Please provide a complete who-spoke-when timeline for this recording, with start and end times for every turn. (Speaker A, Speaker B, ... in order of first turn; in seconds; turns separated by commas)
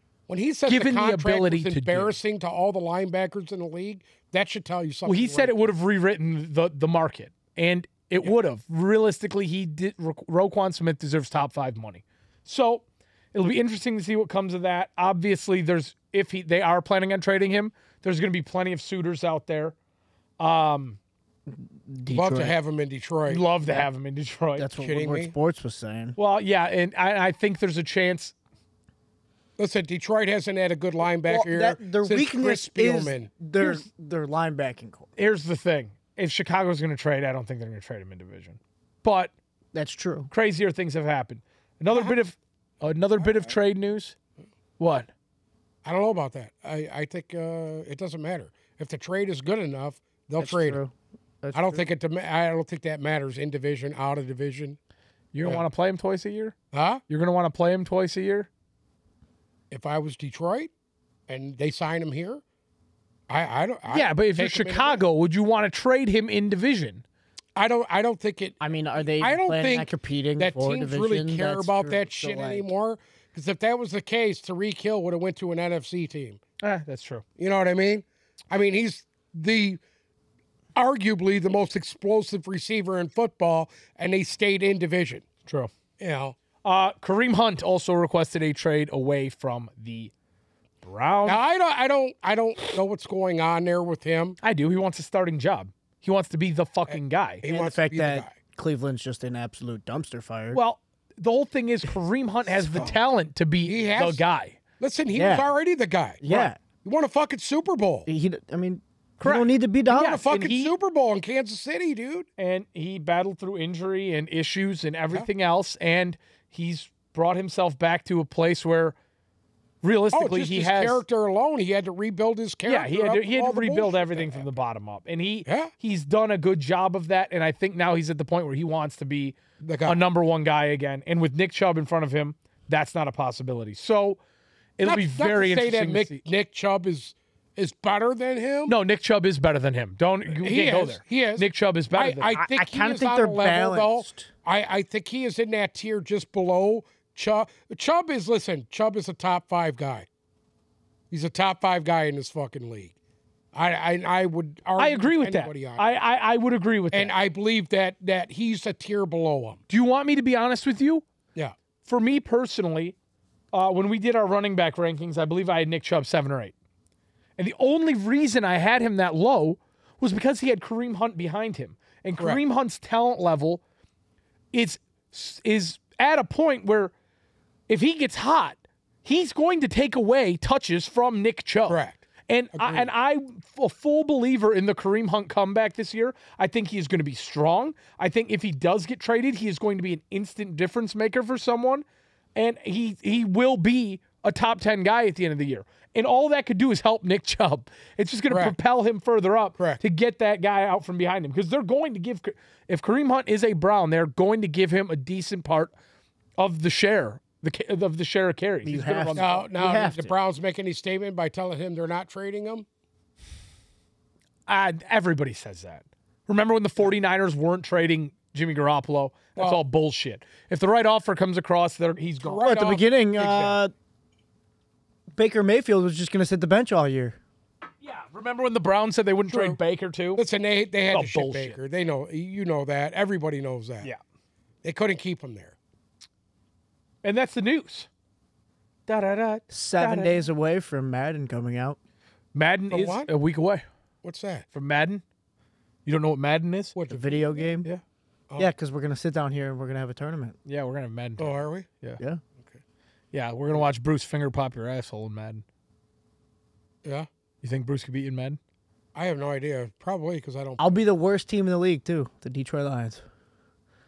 Speaker A: 0.3-5.5, Speaker B: 0.7-2.1, Speaker B: 5.0-12.8, Speaker B: 13.3-19.8, Speaker B: 20.4-21.0, Speaker C: 21.5-22.5, Speaker A: 22.1-23.4, Speaker B: 23.3-24.7, Speaker C: 24.6-26.2, Speaker A: 24.8-25.3, Speaker B: 26.2-28.3, Speaker A: 29.6-33.3, Speaker C: 31.3-35.1, Speaker B: 35.2-39.3, Speaker C: 39.7-40.3, Speaker B: 40.3-44.2, Speaker B: 44.8-45.1, Speaker A: 45.9-50.8, Speaker C: 50.4-51.8, Speaker A: 51.5-54.8, Speaker B: 55.3-56.5, Speaker A: 56.7-57.0, Speaker B: 57.1-58.5, Speaker A: 59.7-60.7, Speaker A: 61.3-62.4, Speaker A: 63.3-65.0, Speaker B: 63.9-67.0, Speaker A: 67.6-68.6, Speaker C: 68.6-72.7, Speaker A: 69.2-76.4, Speaker B: 76.6-77.2, Speaker A: 77.4-79.8, Speaker A: 80.8-85.2, Speaker A: 86.0-86.3, Speaker B: 86.6-90.1, Speaker B: 90.8-91.4, Speaker A: 91.3-94.4, Speaker B: 94.4-97.4, Speaker A: 97.4-98.3, Speaker C: 97.4-100.6, Speaker B: 100.5-104.6, Speaker A: 103.7-104.2, Speaker A: 104.8-108.1, Speaker C: 105.1-105.5, Speaker C: 106.2-106.6, Speaker C: 108.1-110.2, Speaker B: 109.2-110.7, Speaker A: 109.9-112.3, Speaker B: 112.4-119.0, Speaker B: 119.8-121.0, Speaker A: 120.1-124.5, Speaker B: 122.7-134.2, Speaker A: 125.5-125.7, Speaker A: 129.6-130.0, Speaker B: 134.8-136.2, Speaker A: 134.8-138.8, Speaker B: 138.7-142.4, Speaker A: 140.3-150.1, Speaker C: 142.4-144.3, Speaker A: 151.1-152.9, Speaker A: 153.5-155.9, Speaker B: 154.8-157.1, Speaker A: 156.9-159.6, Speaker B: 159.7-161.1, Speaker B: 161.8-163.0, Speaker B: 163.5-166.5, Speaker B: 167.4-173.6, Speaker B: 174.5-176.9, Speaker B: 177.7-191.8, Speaker A: 181.7-182.0, Speaker A: 182.6-182.9, Speaker B: 192.4-205.7, Speaker A: 198.3-198.6, Speaker B: 206.4-209.4, Speaker C: 208.7-210.1, Speaker A: 209.2-212.7, Speaker B: 214.5-222.5, Speaker A: 222.2-222.9, Speaker C: 222.4-223.7, Speaker B: 223.2-223.6, Speaker C: 225.1-227.2, Speaker B: 227.8-230.2, Speaker A: 229.3-229.6, Speaker A: 230.2-233.9, Speaker B: 230.9-231.6, Speaker A: 234.6-235.6, Speaker B: 237.0-237.9, Speaker B: 238.9-240.2, Speaker C: 239.5-241.8, Speaker B: 242.3-243.7, Speaker A: 242.7-243.1, Speaker A: 244.0-244.5, Speaker B: 244.5-245.0, Speaker B: 245.9-246.8, Speaker A: 246.8-247.6, Speaker C: 246.9-247.7, Speaker C: 248.4-250.4, Speaker B: 250.5-252.0, Speaker A: 251.2-251.7, Speaker B: 253.1-255.4, Speaker B: 257.4-258.4, Speaker A: 258.9-260.8, Speaker C: 260.6-263.0